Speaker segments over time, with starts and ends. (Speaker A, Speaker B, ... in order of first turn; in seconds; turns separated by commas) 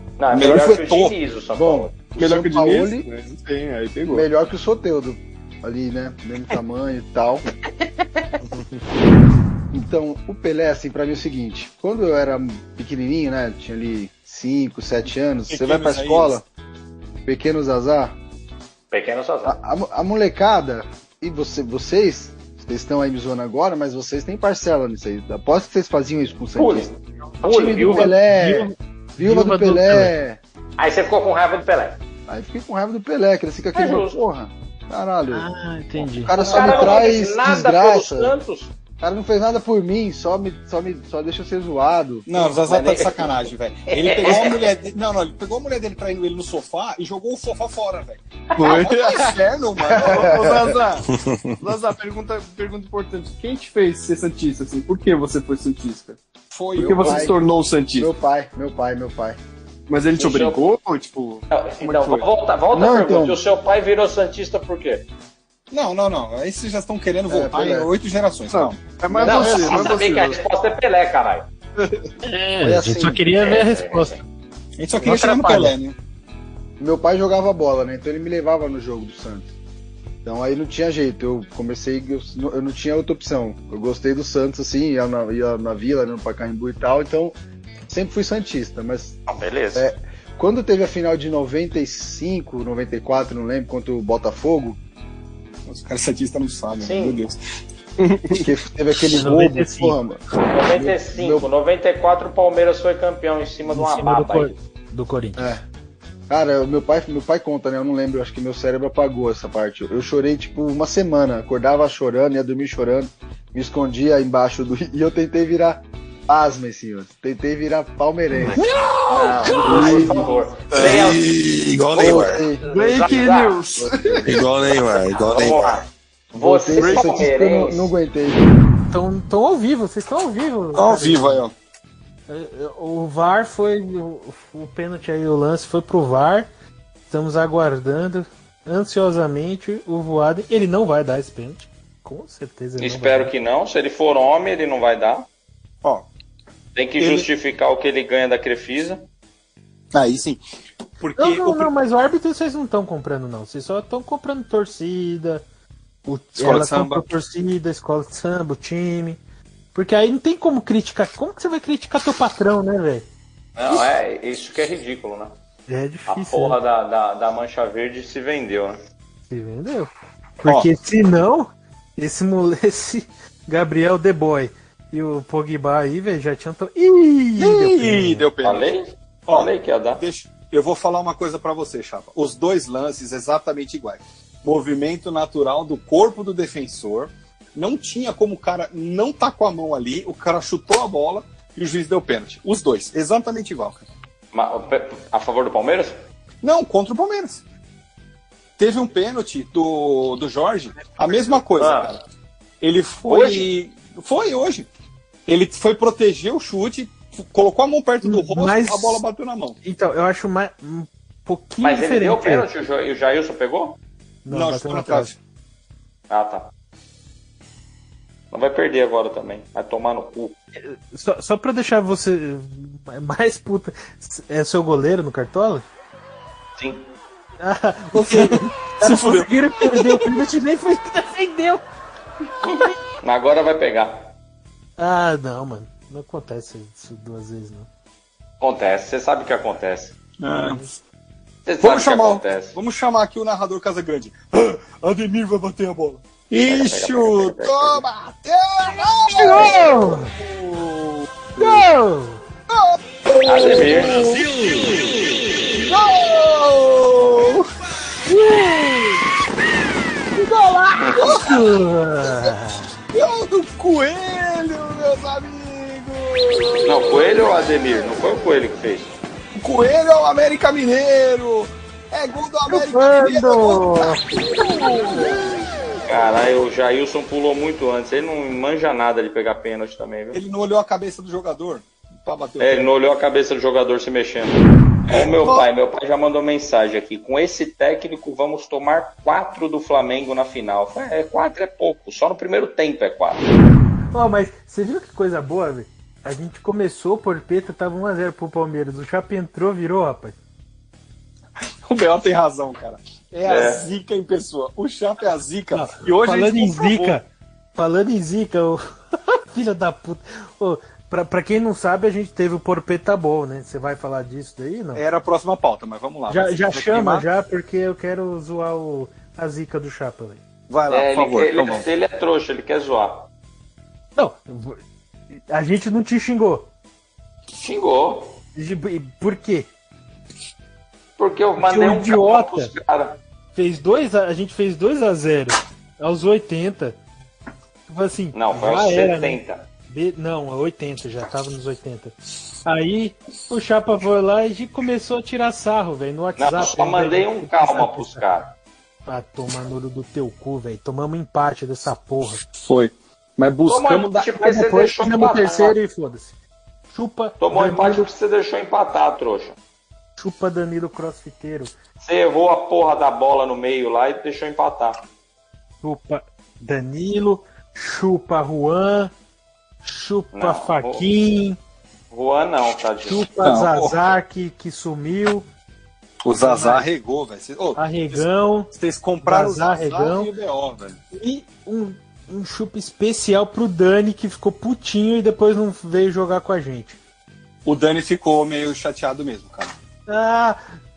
Speaker A: 0.2-2.1, Speaker B: 0.3-1.2, Speaker C: 1.5-3.1, Speaker D: 2.2-4.3, Speaker C: 4.1-7.5, Speaker C: 9.7-16.4, Speaker B: 15.5-16.4, Speaker C: 17.3-18.1, Speaker A: 18.9-19.6, Speaker C: 19.4-30.4, Speaker A: 26.6-28.1, Speaker E: 27.9-30.1, Speaker A: 30.8-32.0, Speaker C: 32.3-38.4, Speaker A: 33.7-34.2, Speaker E: 35.3-36.4, Speaker A: 36.4-38.7, Speaker C: 39.0-42.4, Speaker B: 42.3-50.3, Speaker A: 42.7-43.4, Speaker A: 43.9-44.7, Speaker D: 48.6-51.0, Speaker C: 49.8-50.8, Speaker D: 51.6-56.2, Speaker B: 56.5-57.3, Speaker D: 56.8-58.1, Speaker C: 56.8-57.4, Speaker C: 58.0-59.4, Speaker D: 59.9-62.3, Speaker A: 60.2-60.6, Speaker A: 61.5-65.0, Speaker C: 62.7-63.4, Speaker B: 65.7-68.8, Speaker C: 67.3-67.9, Speaker D: 68.5-70.4, Speaker C: 69.1-70.0, Speaker A: 69.2-71.5, Speaker E: 72.2-74.2, Speaker C: 72.6-73.3, Speaker A: 73.4-74.2, Speaker B: 74.8-76.0, Speaker E: 75.0-75.8, Speaker C: 76.8-79.5, Speaker C: 80.2-87.4, Speaker C: 87.9-89.2, Speaker A: 89.3-89.8, Speaker C: 89.7-94.8, Speaker B: 95.7-97.4, Speaker A: 96.8-97.2, Speaker D: 98.0-98.4, Speaker C: 98.3-101.5, Speaker E: 99.2-100.0, Speaker A: 100.5-104.5, Speaker E: 103.7-105.6, Speaker C: 105.4-105.6, Speaker C: 106.3-118.6, Speaker A: 119.1-121.2, Speaker C: 119.5-120.4, Speaker F: 120.8-122.3, Speaker A: 121.9-123.7, Speaker C: 122.0-122.7, Speaker D: 122.6-124.3, Speaker C: 123.8-124.3, Speaker F: 124.3-125.8, Speaker A: 125.1-127.9, Speaker C: 126.3-128.5, Speaker E: 128.9-131.4, Speaker B: 130.7-131.5, Speaker E: 132.3-136.5, Speaker E: 137.1-143.3, Speaker A: 142.8-145.3, Speaker A: 146.8-149.0, Speaker B: 147.0-147.3, Speaker B: 149.9-150.4, Speaker B: 151.0-151.7, Speaker E: 151.2-155.4, Speaker E: 156.1-159.2, Speaker B: 156.4-157.1, Speaker E: 159.7-163.1, Speaker A: 163.6-165.3, Speaker E: 165.7-166.6, Speaker A: 166.1-168.8, Speaker E: 169.3-178.3, Speaker B: 177.4-178.7, Speaker A: 178.4-180.0, Speaker B: 179.3-193.8, Speaker A: 194.3-196.0, Speaker B: 196.4-197.4, Speaker B: 198.6-202.0, Speaker E: 201.0-201.4, Speaker A: 201.6-201.9, Speaker B: 202.6-204.7, Speaker A: 203.1-203.5, Speaker B: 205.3-209.6, Speaker E: 208.0-209.0, Speaker E: 209.6-212.5, Speaker A: 211.6-213.8, Speaker E: 214.2-215.1, Speaker B: 214.3-215.2, Speaker A: 216.1-216.5, Speaker A: 218.3-220.3, Speaker E: 220.6-225.7, Speaker A: 226.6-226.8, Speaker E: 227.4-231.6, Speaker B: 227.9-230.1, Speaker A: 232.4-234.1, Speaker E: 234.8-237.7, Speaker A: 238.4-239.9, Speaker B: 240.2-240.6, Speaker E: 240.4-240.7, Speaker A: 241.5-242.6, Speaker B: 241.6-251.6, Speaker A: 246.4-247.8, Speaker E: 249.1-250.1, Speaker E: 251.4-252.2, Speaker B: 252.5-254.8, Speaker A: 253.2-254.0, Speaker B: 255.5-257.5, Speaker B: 258.1-258.9, Speaker B: 260.1-261.4, Speaker A: 260.8-261.2, Speaker E: 261.2-262.7, Speaker B: 262.9-267.1, Speaker A: 266.7-268.9, Speaker B: 269.4-275.3, Speaker E: 272.5-274.0, Speaker A: 275.9-280.2, Speaker B: 280.1-282.7, Speaker A: 282.4-293.2, Speaker B: 284.9-285.5, Speaker E: 293.9-300.1, Speaker B: 301.7-307.0, Speaker A: 303.2-303.6, Speaker E: 305.5-307.1, Speaker E: 307.6-308.6, Speaker E: 309.3-314.9, Speaker B: 314.8-317.1, Speaker E: 316.1-320.2, Speaker B: 320.5-321.7, Speaker A: 320.7-323.1, Speaker E: 324.0-324.6, Speaker E: 325.3-326.5, Speaker A: 327.3-328.2, Speaker E: 328.4-329.5, Speaker A: 331.0-333.0, Speaker E: 331.4-332.5, Speaker E: 333.4-336.8, Speaker E: 337.7-348.1, Speaker A: 338.1-339.5, Speaker A: 346.2-348.3, Speaker E: 348.9-352.2, Speaker B: 352.4-354.1, Speaker A: 353.5-355.6, Speaker E: 354.2-356.1, Speaker E: 356.7-357.9, Speaker A: 357.2-359.4, Speaker E: 360.0-361.5, Speaker A: 361.8-364.8, Speaker E: 365.6-368.9, Speaker E: 369.6-371.4, Speaker A: 370.1-370.9, Speaker A: 371.9-373.1, Speaker E: 372.9-375.3, Speaker B: 373.2-373.9, Speaker B: 376.0-380.8, Speaker E: 376.2-376.7, Speaker E: 377.6-378.5, Speaker E: 379.0-380.1, Speaker E: 380.9-386.8, Speaker B: 387.4-389.5, Speaker E: 389.9-390.4